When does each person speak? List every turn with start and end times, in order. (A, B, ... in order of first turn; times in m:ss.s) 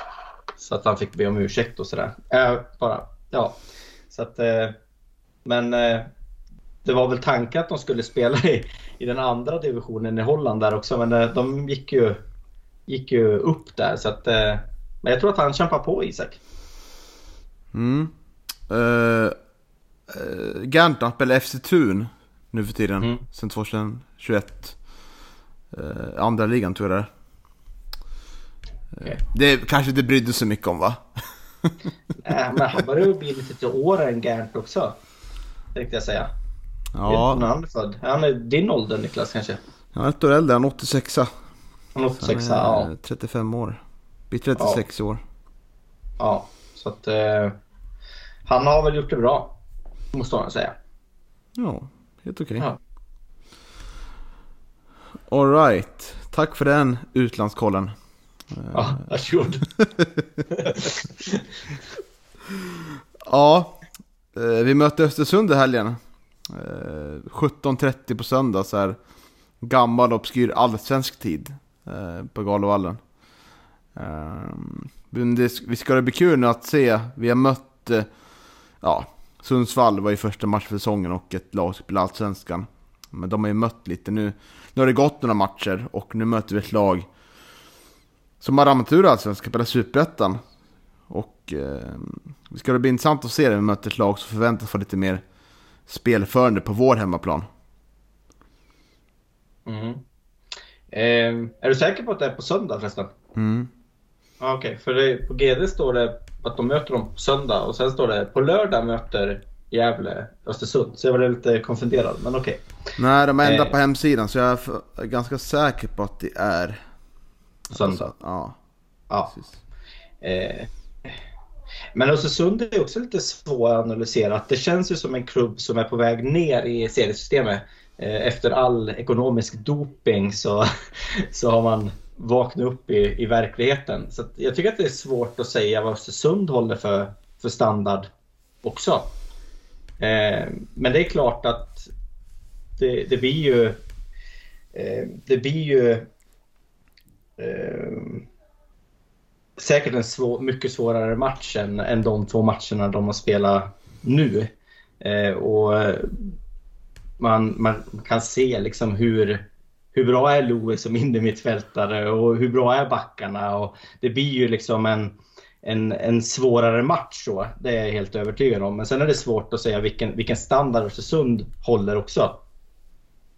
0:00.6-0:04.8 A
0:05.4-0:06.1 A
0:06.8-0:12.2 A
0:12.9-0:16.4 A
0:17.7-0:18.1 B
0:18.7-0:19.3 B
0:20.1-0:24.8 B
0:25.7-0:27.1 B
0:29.0-0:31.8 B
0:32.2-0:35.0 A
0:35.7-0:36.3 A
0:36.9-0:37.4 B
0:37.0-0:39.6 A
0:39.9-0:41.3 B
0:41.9-0:42.9 A
0:42.2-0:45.2 B
0:46.2-0:47.6 A
0:48.4-0:49.6 A
0:50.1-0:50.7 A
0:51.6-0:52.7 B
0:55.3-0:57.9 B
0:58.5-0:58.9 B
0:58.7-0:59.6 A
0:59.8-1:00.2 B
1:00.6-1:01.4 A
1:03.2-1:03.8 B
1:04.3-1:09.0 B
1:09.6-1:13.0 B
1:13.9-1:18.1 B
1:18.8-1:27.1 B
1:28.4-1:30.4 B
1:31.1-1:35.2 B
1:35.9-1:37.4 B
1:39.6-1:40.0 A
1:40.9-1:43.1 A
1:43.3-1:43.7 B
1:44.4-1:52.6 A
1:53.0-1:56.8 B
1:53.4-1:53.8 A
1:57.7-1:58.6 B
1:57.7-1:58.1 A
2:00.2-2:01.1 A
2:01.9-2:18.1 A
2:18.6-2:19.1 A
2:20.0-2:21.9 A
2:22.8-2:23.8 A
2:24.7-2:26.1 A
2:27.4-2:28.3 A
2:29.6-2:36.3 A
2:37.2-2:52.4 A